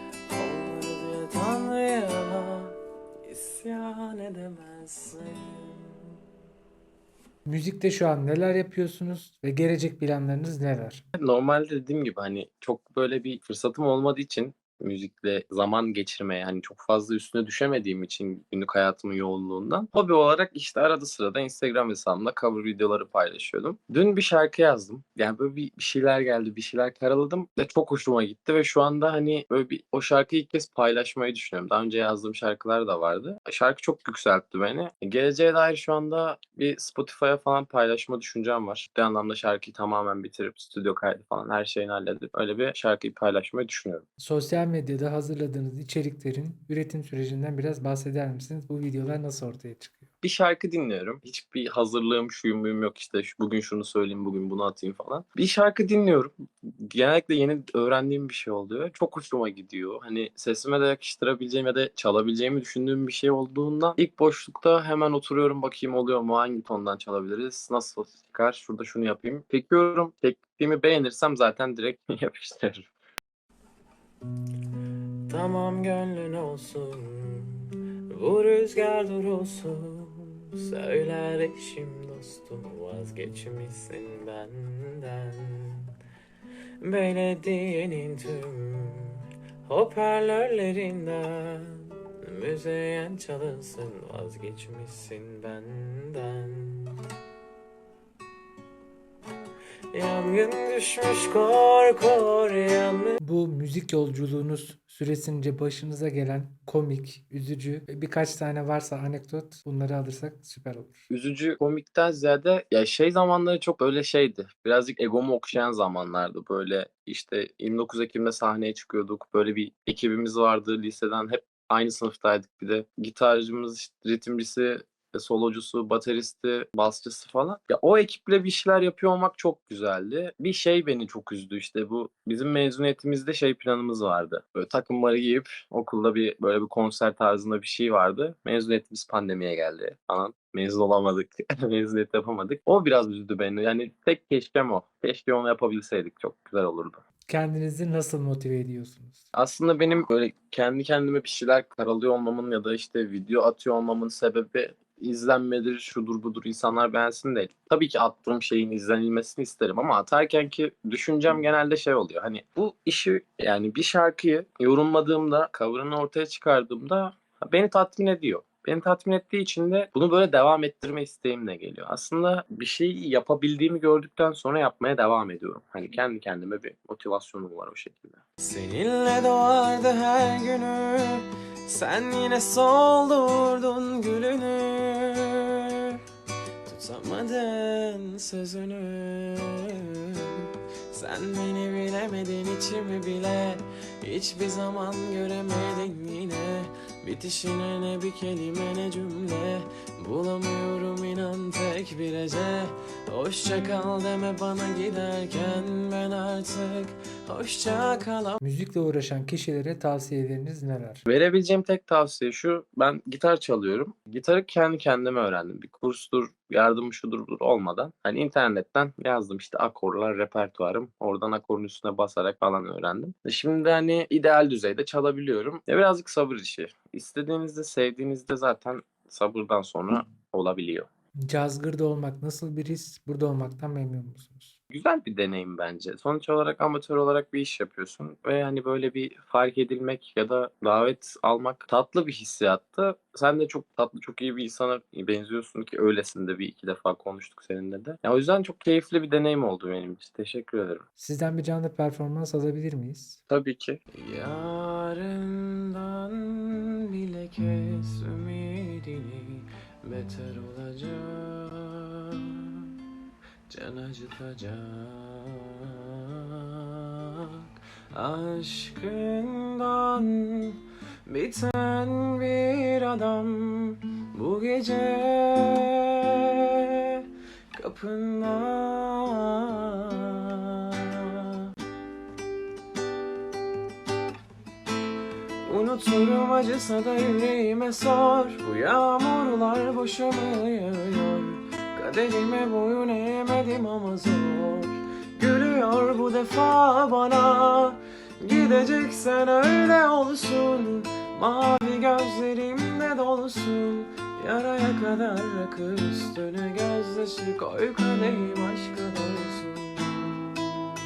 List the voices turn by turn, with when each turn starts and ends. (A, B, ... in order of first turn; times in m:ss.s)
0:00.3-0:02.7 A
0:03.3-0:05.8 A
0:07.5-0:11.0 B
0:11.2-0:44.0 C
0:44.2-0:50.1 B
0:50.2-1:12.9 C
1:15.3-1:17.6 A
1:18.1-1:25.9 A
1:26.8-1:37.0 A
1:39.9-1:43.2 A
1:43.2-1:51.0 B
1:51.1-2:27.0 C
2:27.3-2:29.2 B
2:29.3-2:58.2 C
2:58.4-3:05.7 A
3:06.7-3:28.4 A
3:28.4-3:31.0 B
3:31.1-3:50.9 C
3:51.2-3:54.6 B
3:54.7-4:10.8 C
4:11.0-4:13.2 B
4:13.3-4:13.8 C
4:14.0-4:22.4 A
4:23.5-4:26.7 A
4:27.9-4:36.6 A
4:37.6-4:40.9 A
4:45.5-5:10.3 A